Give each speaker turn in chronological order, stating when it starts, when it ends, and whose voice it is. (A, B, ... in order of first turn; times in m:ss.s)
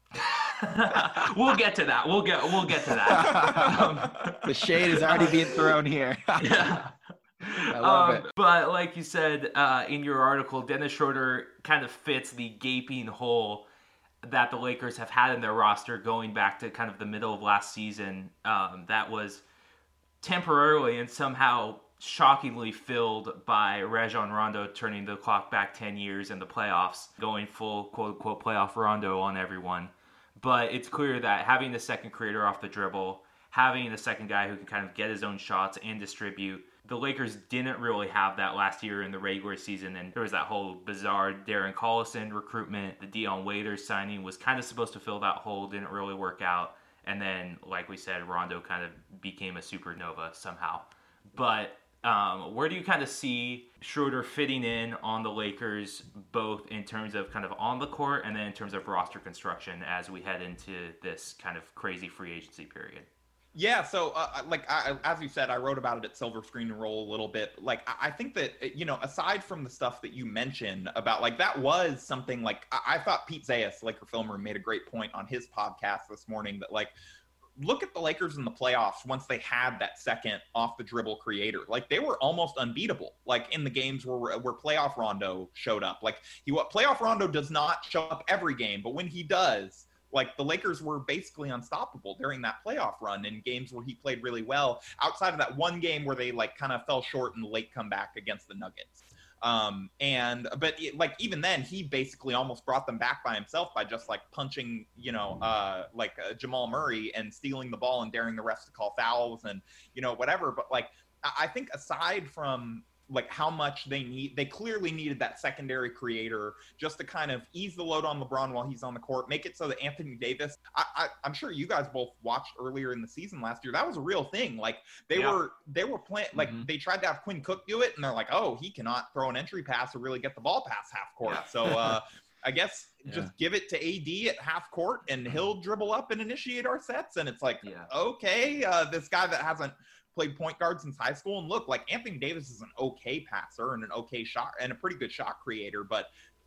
0:00.2-0:05.6 A
0:01.0-0:01.2 B
0:03.1-0:03.8 C
0:03.4-0:04.3 B
0:04.4-0:06.8 C
0:06.4-0:13.7 A
0:07.7-0:08.2 C
0:14.2-0:19.4 A
0:20.2-1:03.1 A
1:03.6-1:17.0 B
1:17.6-2:26.1 B
2:05.1-2:05.4 A
2:06.4-2:06.6 C
2:11.2-2:11.9 A
2:17.6-2:17.9 A